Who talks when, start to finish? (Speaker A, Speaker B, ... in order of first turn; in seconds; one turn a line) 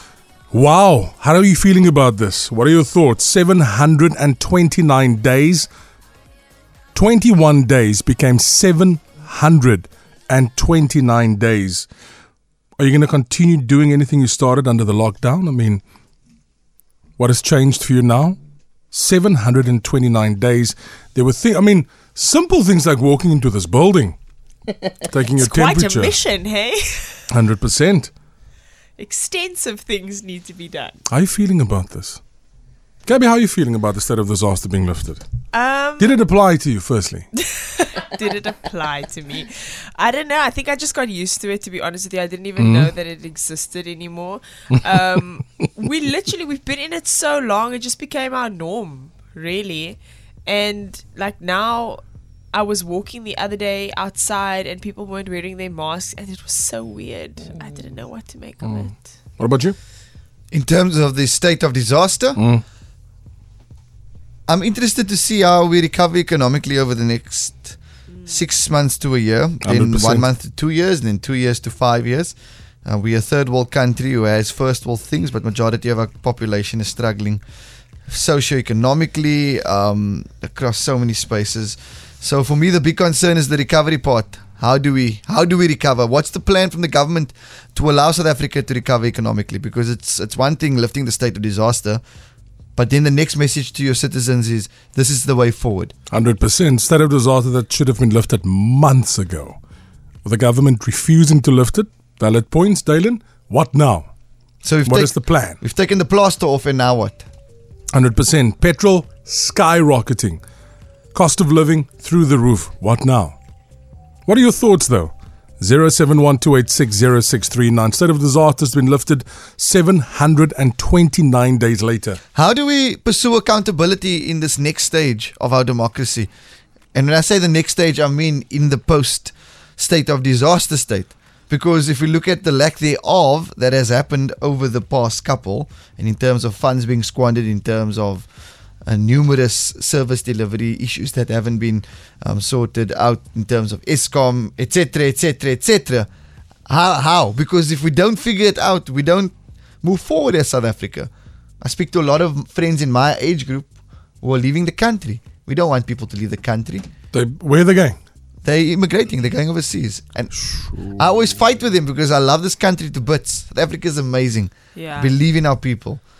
Speaker A: 0.5-5.7
Speaker A: 6.9-11.9
Speaker A: 12.8-15.8
Speaker A: 17.2-18.4
Speaker A: 18.9-24.2
Speaker A: 25.1-26.2
Speaker B: 25.4-27.2
Speaker A: 27.3-28.1
Speaker B: 29.0-31.0
Speaker A: 31.1-32.2
Speaker A: 33.0-35.2
Speaker B: 35.5-36.2
Speaker A: 36.0-37.3
Speaker B: 37.5-52.0
Speaker A: 42.6-42.9
Speaker B: 52.5-59.1
Speaker A: 58.6-59.8
Speaker C: 60.5-62.4
Speaker A: 62.4-62.6
Speaker C: 64.5-77.4
Speaker A: 69.6-70.3
Speaker C: 78.1-92.0
Speaker C: 92.8-95.9
Speaker A: 96.1-99.6
Speaker A: 100.2-104.1
Speaker C: 104.6-107.2
Speaker A: 104.9-105.6
Speaker A: 107.9-110.4
Speaker A: 111.1-113.4
Speaker A: 114.3-122.2
Speaker C: 122.3-126.3
Speaker C: 126.9-138.3
Speaker C: 138.8-146.1
Speaker C: 146.7-156.9
Speaker A: 157.1-158.0
Speaker C: 158.4-166.0
Speaker B: 164.8-165.2